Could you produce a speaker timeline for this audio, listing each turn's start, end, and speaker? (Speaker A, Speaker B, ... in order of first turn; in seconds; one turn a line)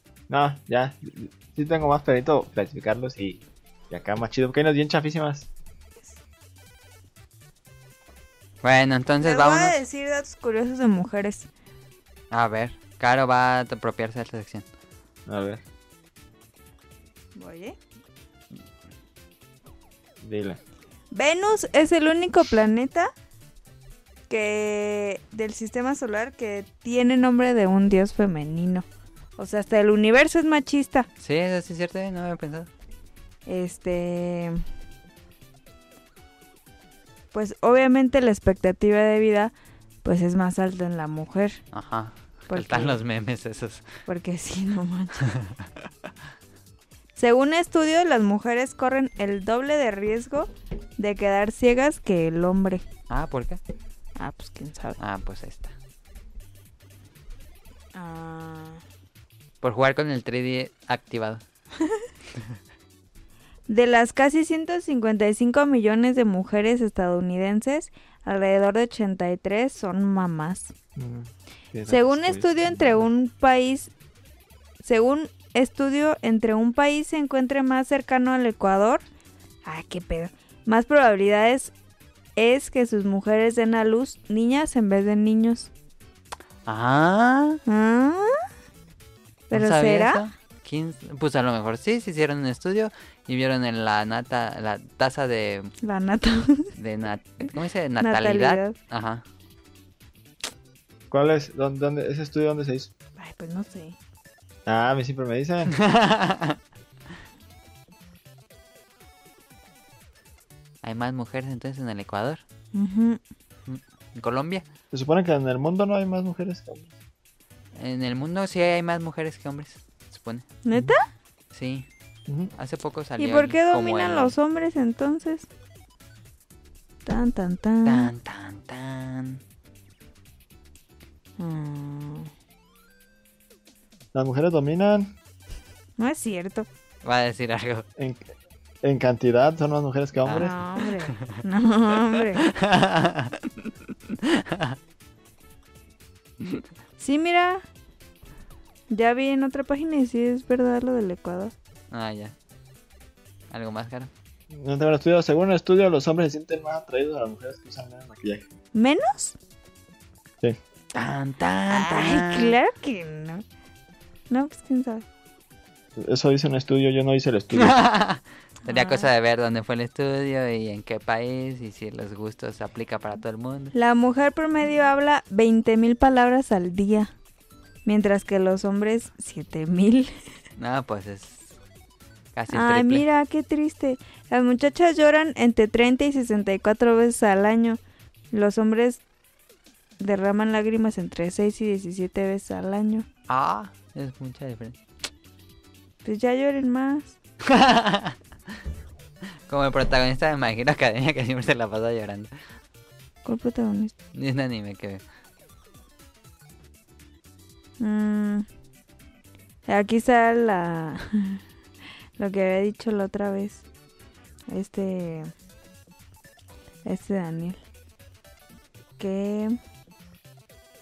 Speaker A: 0.3-5.5
Speaker B: 8.6-9.8
Speaker C: 9.2-11.5
Speaker B: 12.3-14.6
Speaker A: 15.3-15.6
Speaker C: 17.3-17.8
Speaker A: 20.2-20.6
Speaker C: 21.1-23.1
Speaker C: 24.3-28.9
Speaker C: 29.4-31.1
Speaker B: 31.2-32.7
Speaker C: 33.5-34.6
Speaker C: 37.3-39.5
Speaker C: 40.0-41.6
Speaker B: 41.7-43.9
Speaker C: 42.5-43.0
Speaker C: 44.0-45.2
Speaker B: 45.2-45.6
Speaker C: 47.1-52.8
Speaker B: 53.1-53.6
Speaker C: 54.2-55.0
Speaker B: 55.0-55.7
Speaker C: 57.9-58.8
Speaker B: 59.6-61.4
Speaker C: 63.7-70.7
Speaker A: 71.0-73.1
Speaker C: 71.9-73.9
Speaker C: 74.8-79.0
Speaker C: 79.6-81.7
Speaker C: 82.3-85.7
Speaker B: 86.7-87.6
Speaker C: 87.7-88.4
Speaker C: 89.5-90.2
Speaker B: 89.5-95.7
Speaker C: 95.8-96.7
Speaker B: 96.8-99.2
Speaker C: 98.0-98.8
Speaker A: 101.1-102.9
Speaker C: 103.2-104.0
Speaker A: 104.7-105.8
Speaker B: 105.7-106.6
Speaker B: 110.8-112.4
Speaker C: 112.7-113.2
Speaker B: 113.7-114.6
Speaker A: 114.9-116.9
Speaker B: 117.7-120.4
Speaker C: 120.6-121.0
Speaker B: 121.5-121.8
Speaker A: 122.3-122.5
Speaker B: 122.5-124.3
Speaker C: 123.2-125.5
Speaker C: 127.0-128.1
Speaker B: 127.8-129.4
Speaker C: 131.4-132.3
Speaker A: 134.1-135.1
Speaker C: 136.0-136.7
Speaker B: 137.0-137.8
Speaker A: 138.0-138.3
Speaker A: 138.8-140.5
Speaker B: 140.2-140.5
Speaker C: 140.4-142.5
Speaker B: 142.4-144.8
Speaker C: 147.0-147.6
Speaker C: 148.9-151.5
Speaker B: 151.9-152.3
Speaker B: 153.5-154.1
Speaker A: 154.5-158.5
Speaker C: 158.7-159.4
Speaker B: 160.9-162.5
Speaker C: 161.7-163.4
Speaker C: 164.3-165.1
Speaker A: 166.0-167.8
Speaker B: 167.6-173.7
Speaker C: 168.7-169.1
Speaker C: 173.7-177.1
Speaker C: 177.8-180.1
Speaker B: 180.6-181.5
Speaker B: 182.3-183.0
Speaker C: 182.5-187.8
Speaker C: 188.3-189.0
Speaker C: 190.0-193.1
Speaker B: 193.3-194.7
Speaker C: 196.0-197.2
Speaker B: 197.4-198.2
Speaker B: 199.5-202.3
Speaker C: 203.2-203.9
Speaker B: 204.1-205.0
Speaker C: 207.8-208.4
Speaker C: 209.7-211.4
Speaker C: 212.2-213.6
Speaker C: 214.5-215.3
Speaker C: 216.8-217.6
Speaker C: 219.0-219.6